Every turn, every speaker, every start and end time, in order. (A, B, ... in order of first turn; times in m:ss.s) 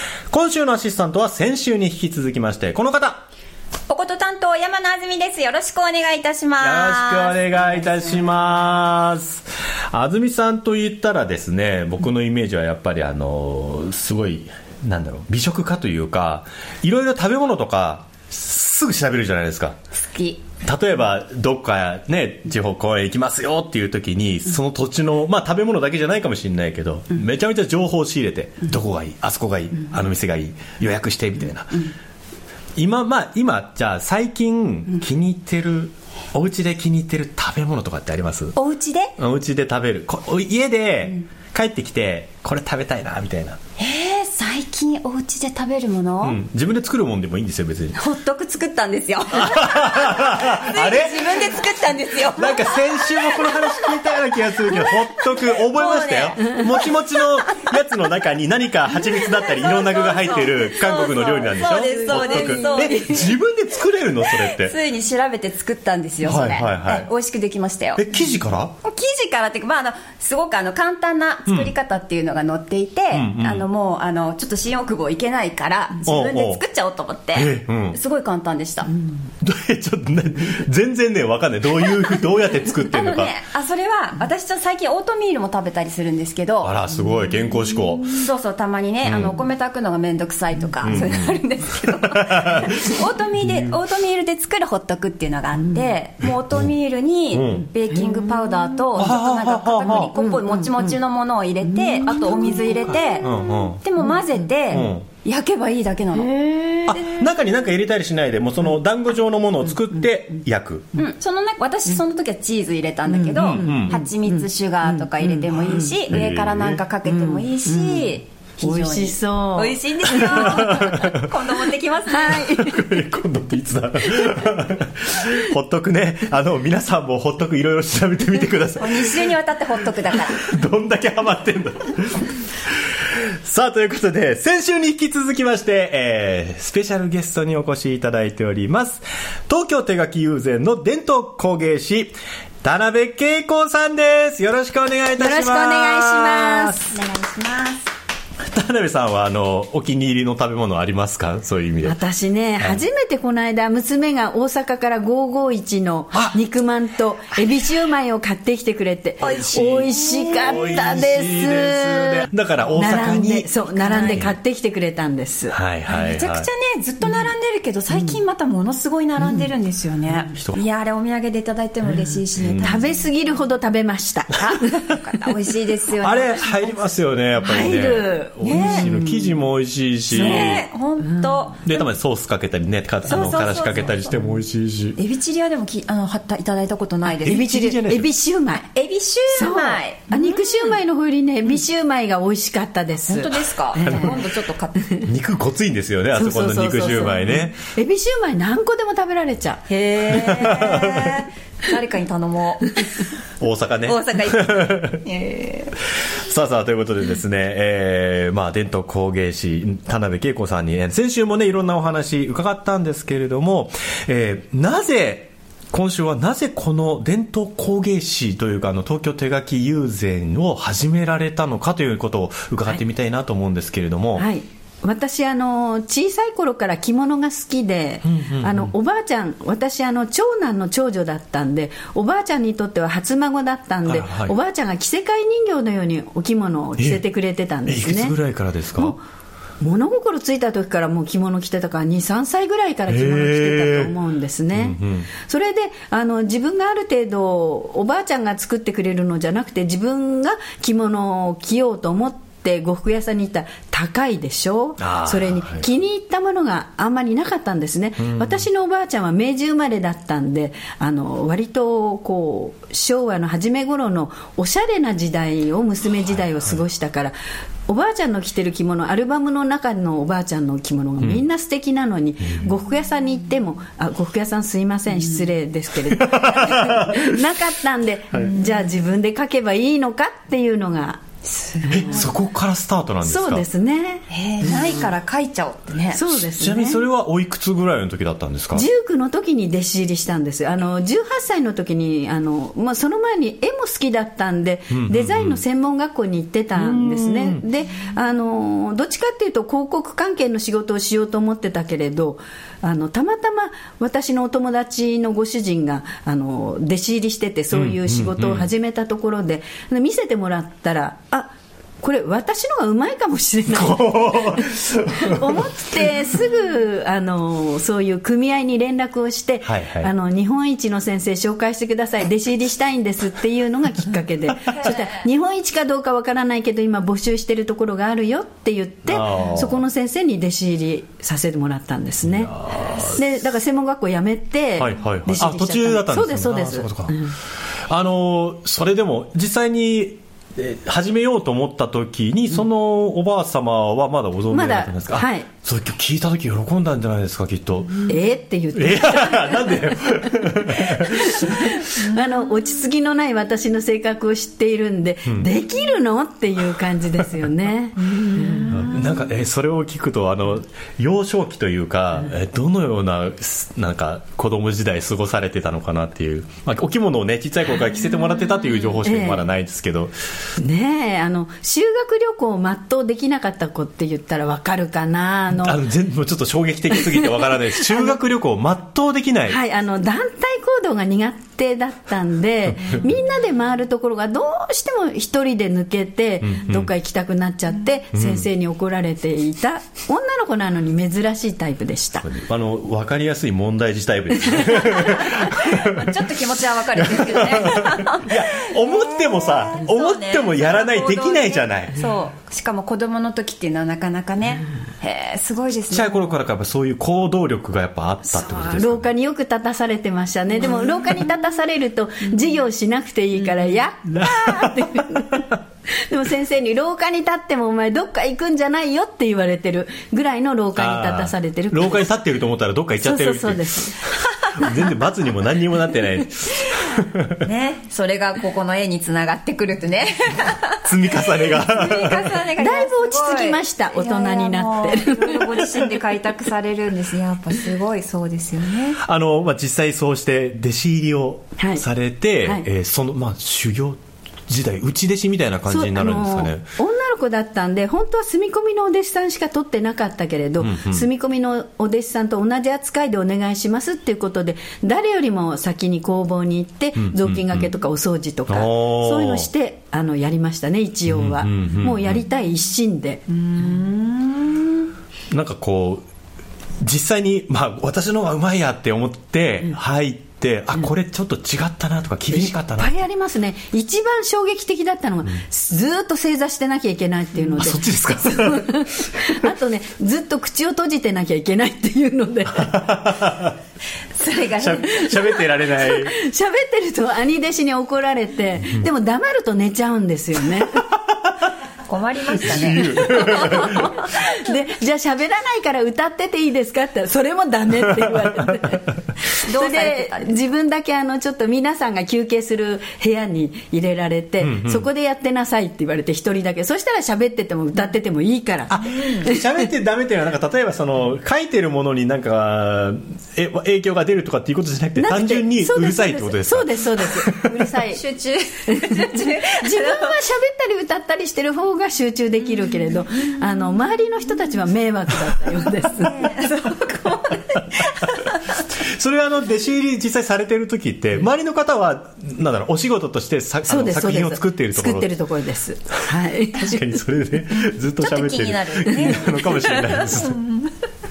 0:00.3-0:03.2 A
0:03.9-0:08.2 B
0:06.6-0:19.8 A
0:19.9-0:20.4 B
0:20.6-0:31.9 A
0:32.8-0:38.6 A
0:38.6-0:39.1 B
0:39.2-0:43.6 A
0:43.8-0:46.4 B
0:46.2-0:48.0 A
0:48.0-0:54.1 B
0:49.3-0:51.5 A
0:52.3-1:04.8 A
0:54.7-0:57.3 B
0:59.1-1:03.3 B
1:02.2-1:03.0 C
1:04.3-1:08.0 B
1:06.2-1:07.1 A
1:08.0-1:08.7 A
1:08.8-1:18.9 B
1:13.1-1:13.6 A
1:16.1-1:16.6 A
1:17.3-1:18.0 A
1:19.4-1:23.3 A
1:22.8-1:26.8 B
1:26.6-1:28.3 A
1:28.1-1:46.3 B
1:29.0-1:29.4 A
1:30.8-1:31.4 A
1:31.9-1:33.0 A
1:37.3-1:37.7 A
1:38.0-1:38.5 C
1:39.0-1:40.1 A
1:40.1-1:40.8 C
1:41.8-1:43.2 C
1:43.2-1:43.8 A
1:44.7-1:45.1 A
1:46.2-1:47.0 C
1:46.9-1:50.9 A
1:51.0-2:02.5 B
1:53.1-1:56.0 C
1:53.4-1:54.0 A
1:56.1-1:56.8 A
1:57.0-2:00.9 C
2:00.1-2:01.3 A
2:02.1-2:03.0 C
2:02.4-2:09.3 A
2:08.8-2:10.4 B
2:10.4-2:12.3 A
2:13.1-2:27.0 A
2:25.2-2:26.9 C
2:26.9-2:27.9 B
2:28.5-2:32.0 A
2:31.8-2:45.6 C
2:39.2-2:44.4 A
2:43.7-2:44.3 B
2:45.5-2:46.5 A
2:45.9-2:53.0 B
2:50.4-2:50.6 A
2:52.4-2:52.8 A
2:52.6-2:54.8 C
2:54.4-2:56.9 B
2:56.0-3:00.6 A
2:57.4-2:59.4 C
2:58.4-2:58.9 B
3:00.1-3:01.4 C
3:00.1-3:01.7 B
3:01.6-3:05.0 A
3:03.0-3:04.1 B
3:05.0-3:07.5 B
3:07.2-3:08.7 C
3:07.2-3:08.1 A
3:08.5-3:10.8 B
3:09.3-3:14.2 C
3:13.1-3:14.8 B
3:13.8-3:14.2 A
3:15.0-3:17.6 A
3:16.2-3:20.6 C
3:19.7-3:22.9 B
3:20.1-3:21.2 A
3:22.7-3:23.1 C
3:23.4-3:25.0 A
3:23.8-3:25.7 B
3:26.0-3:44.3 A
3:44.2-3:58.1 C
3:48.0-3:48.7 A
3:53.9-3:54.4 A
3:57.7-3:59.0 A
3:59.6-4:27.2 C
4:02.9-4:03.9 A
4:04.5-4:05.1 A
4:14.8-4:15.7 A
4:18.0-4:18.4 A
4:27.7-4:41.0 C
4:35.9-4:37.2 A
4:41.3-4:42.1 B
4:41.6-4:42.1 C
4:41.7-4:43.4 A
4:43.0-4:44.6 C
4:44.1-4:46.1 B
4:45.9-4:46.8 C
4:46.1-4:48.7 A
4:48.5-5:37.2 C
4:54.7-4:55.4 A
4:56.6-4:57.4 A
5:07.5-5:08.5 A
5:13.5-5:15.8 A
5:19.4-5:19.9 A
5:28.9-5:29.6 A
5:32.0-5:33.0 A
5:34.6-5:37.1 A
5:37.7-5:47.9 A
5:44.3-5:45.3 C
5:47.9-5:58.5 C
5:48.5-5:51.7 A
5:58.1-5:58.5 B
5:58.4-6:09.9 A
6:08.8-6:09.2 C
6:10.4-6:15.6 C
6:15.3-6:19.4 A
6:16.8-6:18.0 C
6:19.3-6:32.1 C
6:22.5-6:22.8 A
6:26.2-6:26.7 A
6:27.9-6:28.3 A
6:32.0-6:36.0 A
6:34.5-6:35.0 C
6:35.1-6:46.1 B
6:36.8-6:41.7 A
6:45.7-6:48.9 A
6:48.1-7:01.9 C
6:53.9-6:55.4 A
7:00.6-7:03.7 A
7:02.8-7:04.6 C
7:04.3-7:07.2 A
7:07.2-7:18.8 B
7:10.6-7:12.2 A
7:12.4-7:15.4 C
7:18.8-7:26.4 A
7:21.4-7:21.6 C
7:25.5-7:43.1 C
7:30.4-7:30.9 A
7:36.8-7:37.5 A
7:38.3-7:39.3 A
7:40.9-7:42.0 A
7:43.1-7:44.6 B
7:45.1-7:45.9 A
7:46.6-7:52.7 A
7:52.1-8:02.7 C
7:57.4-7:59.3 A
8:02.3-8:03.4 A
8:03.9-8:05.0 B
8:04.4-8:06.0 A
8:04.9-8:10.6 C
8:11.7-8:13.7 B
8:12.2-8:13.8 A
8:12.8-8:29.3 C
8:19.2-8:20.2 B
8:24.2-8:24.7 A
8:28.5-8:37.3 A
8:34.8-8:37.8 C
8:37.6-8:40.0 B
8:38.5-8:46.1 C
8:45.8-8:48.4 B
8:48.5-8:54.9 A
8:53.5-8:56.7 C
8:56.4-9:00.2 A
8:57.3-9:00.5 B